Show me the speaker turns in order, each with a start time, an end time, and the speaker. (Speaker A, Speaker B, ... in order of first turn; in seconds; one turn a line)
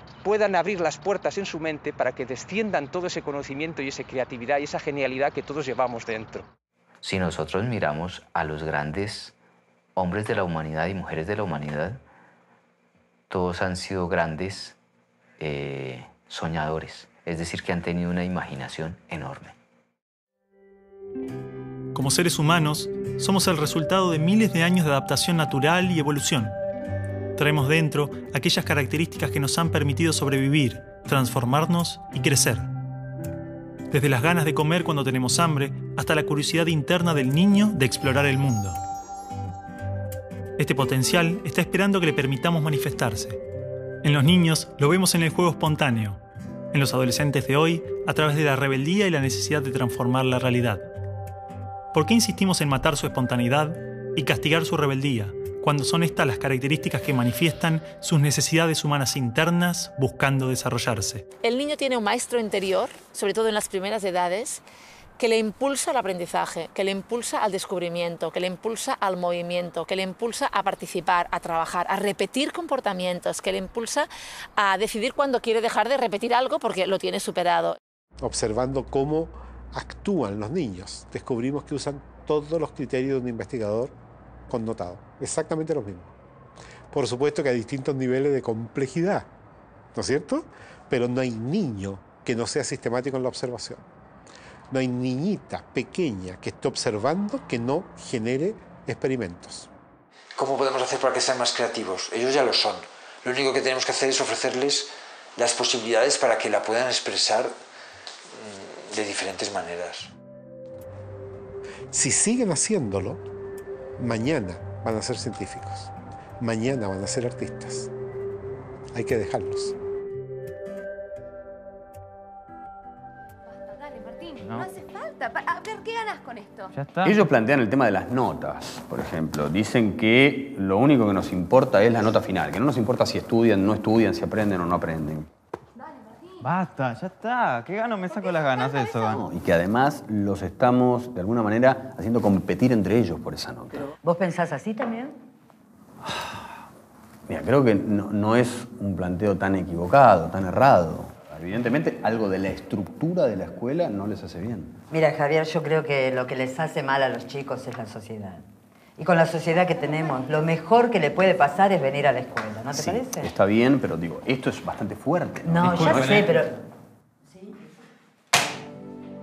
Speaker A: 0.2-6.5
Speaker B: 7.0-9.3
Speaker B: 10.0-12.0
Speaker B: 13.3-14.8
Speaker B: 15.4-19.5
Speaker C: 21.9-26.5
Speaker C: 27.4-32.7
Speaker C: 33.9-38.8
Speaker C: 40.6-43.4
Speaker C: 44.0-46.2
Speaker C: 46.7-50.9
Speaker C: 51.9-61.3
Speaker D: 61.4-64.6
Speaker D: 65.2-77.8
Speaker E: 78.2-84.0
Speaker E: 84.5-86.1
Speaker E: 86.9-89.3
Speaker E: 90.0-93.8
Speaker E: 94.7-99.7
Speaker F: 100.4-107.6
Speaker F: 108.3-110.1
Speaker E: 111.9-113.2
Speaker E: 114.0-117.9
Speaker E: 118.9-119.8
Speaker G: 123.5-126.7
Speaker H: 124.4-124.7
Speaker H: 126.7-127.2
Speaker I: 127.0-135.3
Speaker H: 136.4-139.2
Speaker I: 139.1-143.8
Speaker J: 143.8-145.2
Speaker I: 146.0-146.6
Speaker I: 147.3-154.8
Speaker J: 154.9-163.3
Speaker I: 162.7-166.5
Speaker J: 165.4-166.6
Speaker J: 167.3-167.5